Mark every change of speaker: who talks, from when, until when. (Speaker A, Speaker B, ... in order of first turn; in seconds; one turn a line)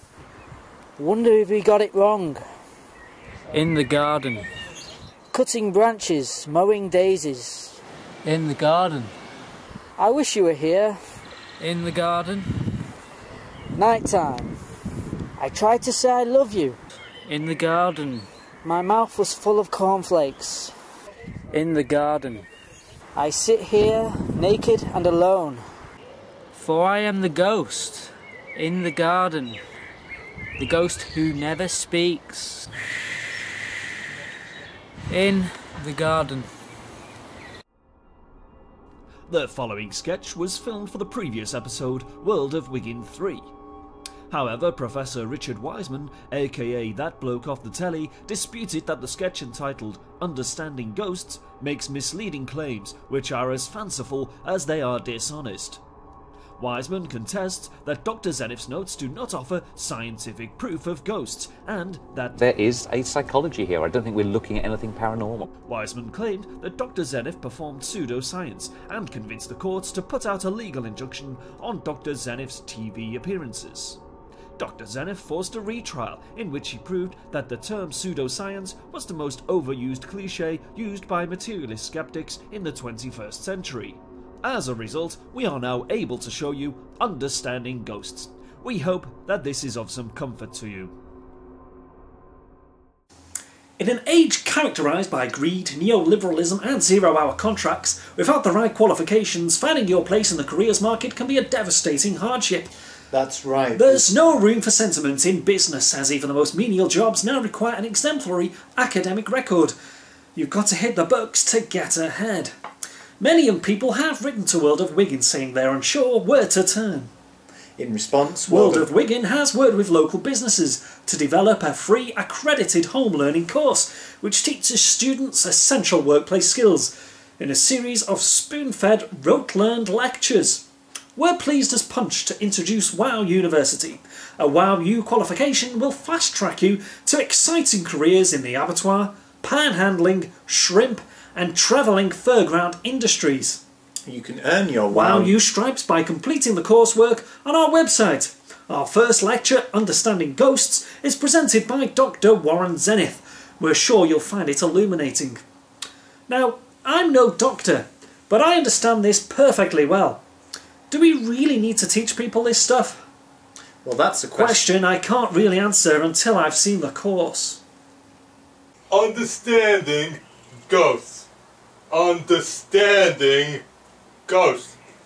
Speaker A: 1.0-2.5
Speaker A: 3.5-4.5
Speaker A: 5.3-9.1
Speaker A: 10.0-11.0
Speaker A: 11.6-12.7
Speaker A: 13.8-14.6
Speaker A: 15.4-20.8
Speaker A: 21.5-22.5
Speaker A: 23.1-25.7
Speaker A: 26.5-29.6
Speaker A: 30.6-32.7
Speaker A: 35.1-36.5
Speaker B: 39.3-43.5
Speaker B: 44.3-55.8
Speaker B: 56.6-62.4
Speaker C: 62.4-65.5
Speaker B: 65.7-74.0
Speaker B: 74.6-90.9
Speaker D: 93.8-102.7
Speaker E: 103.1-104.2
Speaker D: 103.8-109.8
Speaker D: 110.3-112.5
Speaker D: 113.2-117.1
Speaker E: 117.8-118.9
Speaker D: 118.5-143.6
Speaker E: 144.1-145.4
Speaker D: 144.9-155.4
Speaker D: 156.3-160.2
Speaker D: 160.9-163.1
Speaker E: 163.8-164.7
Speaker D: 164.3-167.6
Speaker F: 168.9-171.3
Speaker F: 171.9-173.6
Speaker F: 174.3-174.8